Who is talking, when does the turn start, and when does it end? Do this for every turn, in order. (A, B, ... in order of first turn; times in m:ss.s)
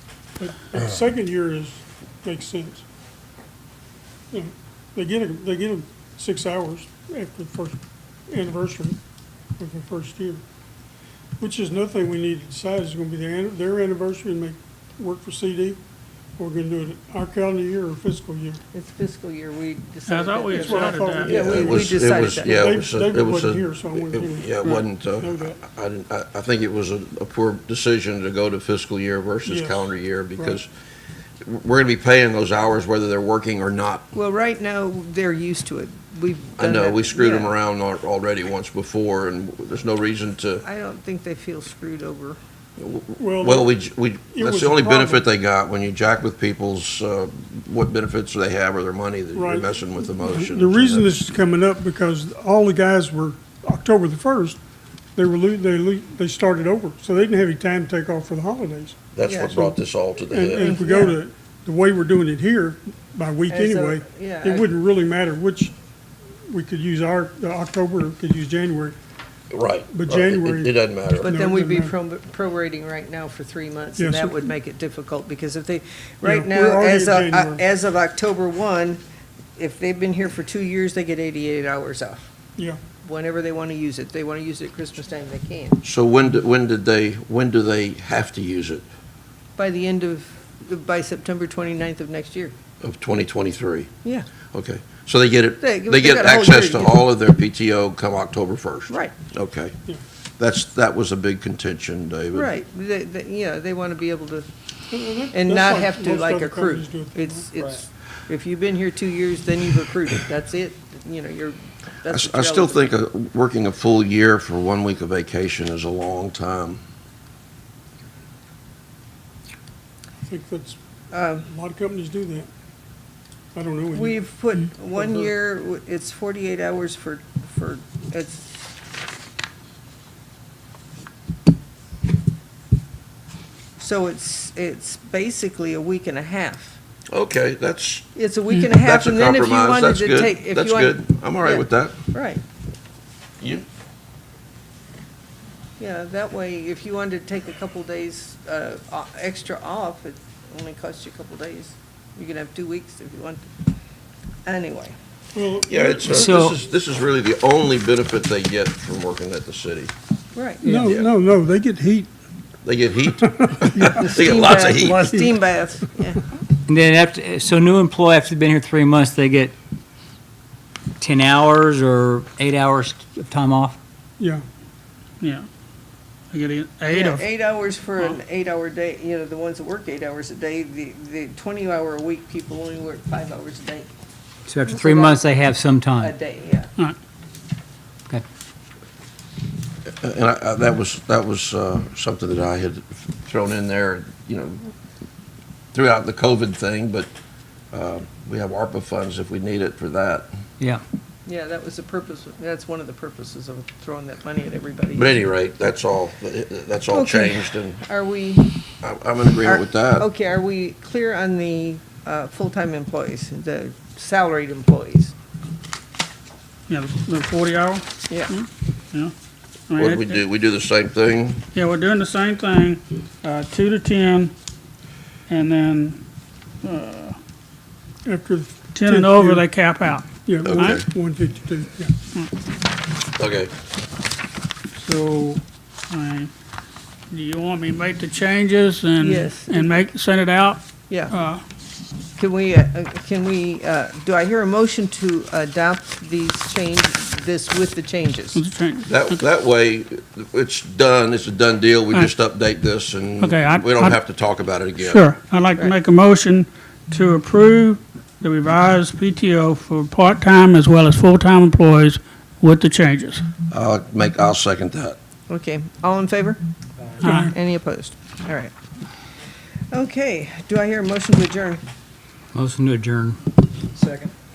0:00.4-0:02.8 A
0:04.3-0:09.0 A
0:09.6-0:10.4 A
0:11.4-0:15.8 A
0:16.4-0:18.6 A
0:18.7-0:22.5 B
0:20.1-0:21.4 C
0:20.5-0:25.6 A
0:21.3-0:30.7 D
0:29.4-0:30.6 A
0:31.4-0:34.0 D
0:34.1-0:37.5 B
0:36.6-0:40.6 D
0:40.6-0:42.4 B
0:42.8-0:51.1 D
0:43.2-0:43.7 A
0:44.3-0:45.2 A
0:49.3-0:49.7 A
0:50.2-0:54.6 A
0:55.2-0:59.0 A
0:59.1-1:00.8 D
0:59.2-0:59.7 B
1:00.3-1:05.7 A
1:00.6-1:01.2 B
1:03.5-1:04.7 B
1:06.5-1:09.0 A
1:09.5-1:11.3 D
1:09.9-1:11.9 A
1:11.2-1:19.0 B
1:14.0-1:14.5 A
1:16.2-1:17.6 A
1:19.6-1:22.3 B
1:23.0-1:25.8 B
1:25.8-1:28.8 D
1:29.6-1:32.5 B
1:32.8-1:33.9 D
1:34.5-1:39.7 D
1:35.6-1:37.0 B
1:40.4-1:42.5 D
1:42.3-1:44.5 B
1:44.9-1:47.4 A
1:45.3-1:52.9 B
1:52.1-1:56.8 D
2:00.2-2:00.8 A
2:01.1-2:01.4 B
2:01.4-2:02.5 A
2:03.5-2:04.2 A
2:03.9-2:08.4 B
2:04.9-2:05.3 A
2:13.8-2:16.8 B
2:17.1-2:18.1 D
2:18.1-2:22.4 B
2:18.7-2:22.0 D
2:25.8-2:33.5 B
2:34.4-2:35.0 B
2:35.3-2:36.3 A
2:35.6-2:39.9 D
2:36.1-2:36.6 E
2:40.3-2:40.7 B
2:40.6-2:42.1 A
2:40.7-2:41.1 D
2:42.6-2:45.2 D
2:43.1-2:44.2 A
2:43.9-2:46.2 B
2:46.7-2:49.5 E
2:51.0-2:53.8 E
2:54.2-2:54.4 A
2:55.2-2:55.5 C
2:56.3-2:57.2 C
2:56.9-3:03.9 B
3:04.5-3:06.1 E
3:04.6-3:05.3 B
3:06.0-3:06.7 B
3:10.0-3:14.6 D
3:15.7-3:17.1 D
3:17.7-3:20.3 D
3:21.2-3:25.2 B
3:24.9-3:27.8 D
3:26.9-3:28.5 B
3:28.8-3:30.1 D
3:29.4-3:35.1 B
3:36.7-3:39.1 C
3:39.7-3:40.2 C
3:39.8-3:41.4 D
3:41.5-3:44.3 C
3:45.3-3:46.0 C
3:46.6-3:47.2 C
3:48.0-3:49.4 A
3:48.7-3:50.8 C
3:50.2-3:51.9 A
3:50.4-3:50.8 D
3:53.2-3:53.5 D
3:54.8-3:56.3 C
3:57.1-4:01.4 C
3:59.0-3:59.8 B
4:02.2-4:08.4 B
4:08.3-4:09.1 C
4:08.8-4:15.1 D
4:13.2-4:14.0 C
4:14.8-4:23.2 C
4:23.5-4:25.0 D
4:25.3-4:26.4 B
4:27.0-4:28.5 B
4:27.0-4:27.3 C
4:29.7-4:31.6 B
4:32.3-4:33.2 E
4:33.8-4:34.1 E